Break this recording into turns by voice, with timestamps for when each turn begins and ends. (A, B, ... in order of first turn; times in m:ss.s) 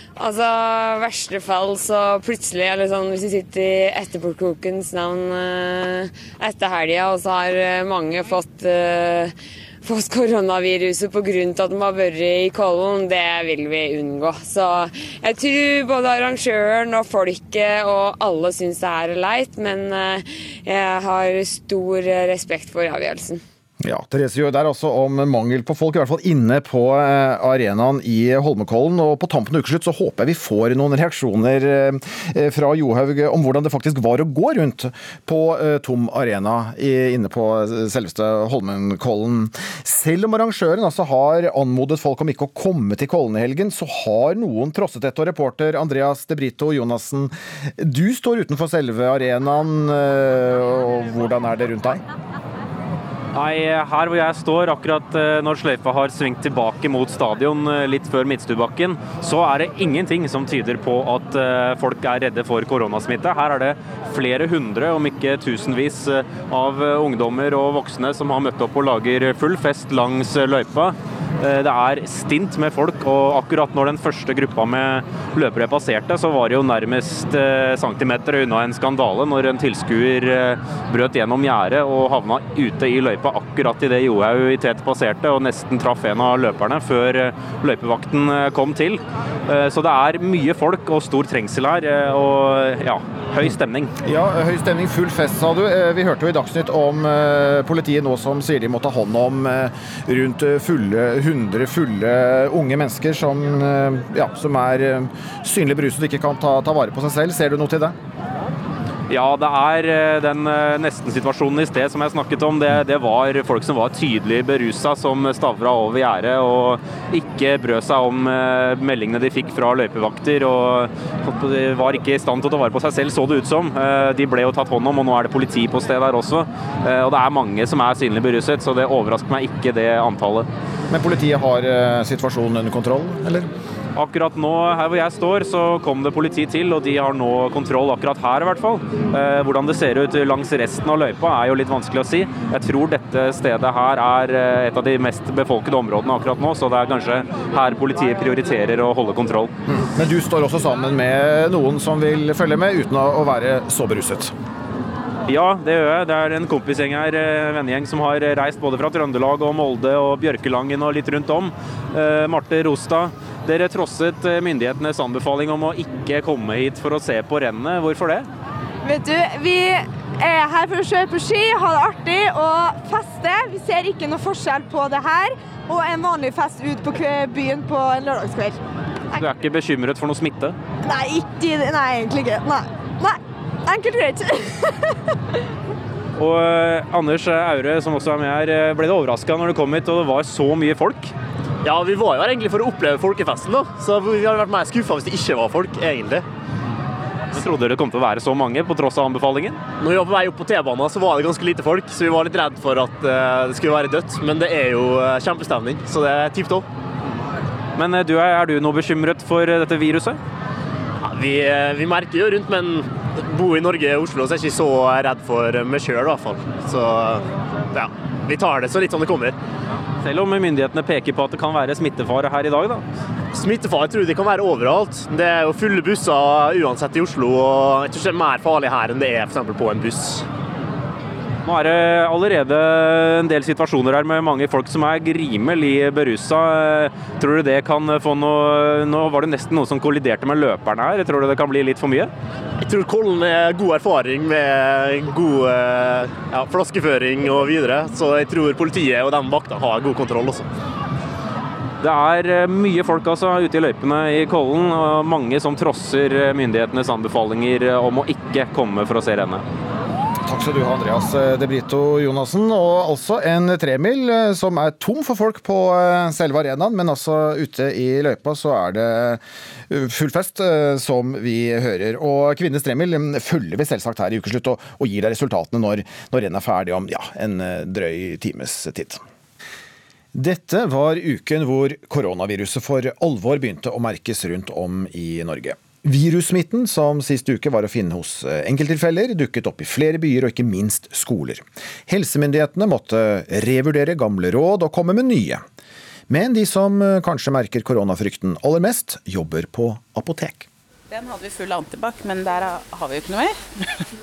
0:00.2-0:23.4 A
0:23.8-0:52.0 B
0:53.3-1:33.9 C
1:34.0-1:48.0 B
1:49.1-2:10.5 C
2:10.9-2:13.5 B
2:14.0-2:29.5 C
2:29.7-2:34.3 B
2:35.3-2:48.3 C
2:48.8-2:58.6 D
2:59.2-3:00.6 C
3:00.8-3:04.7 D
3:06.2-3:11.1 C
3:11.6-3:16.2 E
3:17.3-3:19.6 C
3:19.8-3:26.7 E
3:27.8-3:30.2 C
3:31.0-3:39.4 E
3:40.0-3:42.8 C
3:43.3-3:50.2 E
3:51.5-4:02.1 C
4:02.6-4:10.5 E
4:11.8-4:19.4 C
4:20.2-4:39.0 B
4:40.1-4:55.4 B
4:56.1-5:00.5 B
5:00.9-5:03.8 F